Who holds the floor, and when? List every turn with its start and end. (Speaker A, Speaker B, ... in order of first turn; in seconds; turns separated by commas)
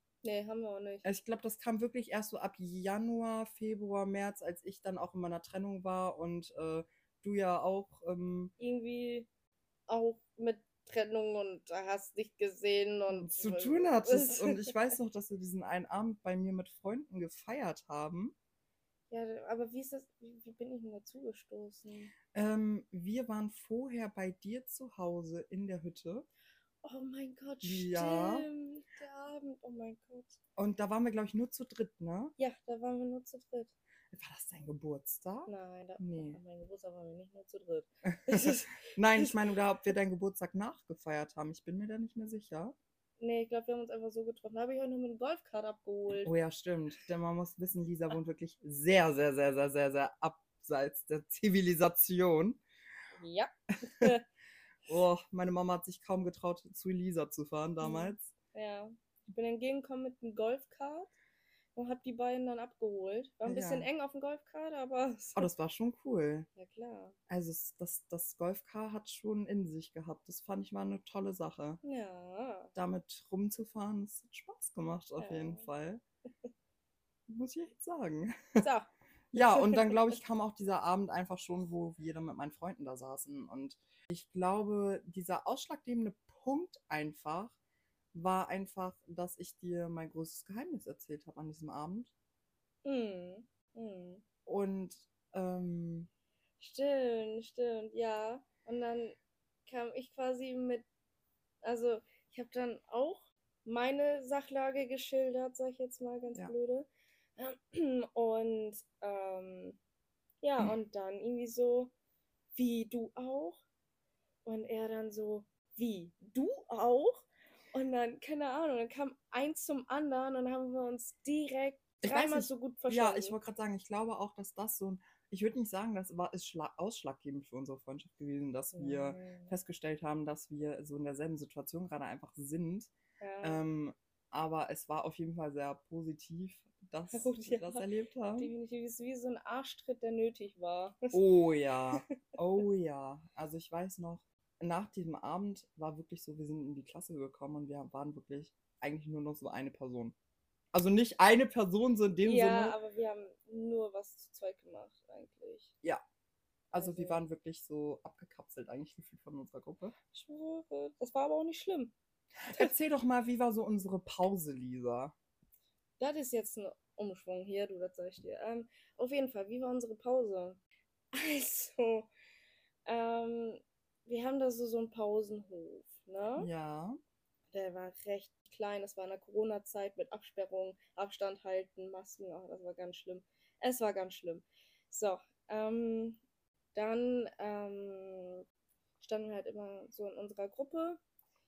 Speaker A: 0.2-1.1, Speaker B: 1.1-8.5, Speaker A: 8.6-9.3, Speaker A: 9.9-14.9, Speaker B: 13.1-18.4, Speaker A: 19.1-22.1, Speaker B: 22.3-26.3, Speaker A: 26.8-30.4, Speaker B: 27.6-28.5, Speaker B: 30.6-32.3, Speaker A: 32.4-33.7, Speaker B: 34.1-36.4, Speaker A: 35.5-39.4, Speaker B: 38.3-42.8, Speaker A: 43.2-46.3, Speaker B: 46.2-52.6, Speaker A: 53.2-54.2, Speaker B: 54.9-58.3, Speaker A: 57.8-61.1, Speaker A: 61.8-65.5, Speaker B: 63.5-63.9, Speaker B: 65.3-66.5, Speaker A: 66.6-67.2, Speaker B: 67.3-71.8, Speaker A: 71.8-72.7, Speaker B: 72.8-76.0, Speaker A: 75.2-75.7, Speaker B: 77.3-78.7, Speaker A: 78.6-80.2, Speaker B: 79.3-87.6, Speaker B: 88.1-92.1, Speaker A: 92.8-94.2, Speaker B: 94.5-96.1, Speaker A: 96.6-100.8, Speaker A: 101.6-109.8, Speaker A: 110.4-111.9, Speaker A: 112.5-113.6, Speaker A: 114.5-123.4, Speaker B: 122.0-138.5, Speaker A: 128.7-129.5, Speaker A: 133.2-133.6, Speaker A: 137.1-137.9, Speaker A: 138.4-141.2, Speaker B: 141.1-150.2, Speaker B: 150.7-152.8, Speaker A: 152.2-155.7, Speaker B: 156.7-159.9, Speaker A: 156.7-157.2, Speaker A: 160.1-161.9, Speaker B: 162.5-165.2, Speaker A: 166.0-170.6, Speaker A: 171.1-172.1, Speaker A: 172.9-176.5, Speaker B: 176.4-177.0, Speaker A: 177.5-186.2, Speaker A: 186.7-188.4, Speaker A: 189.0-191.0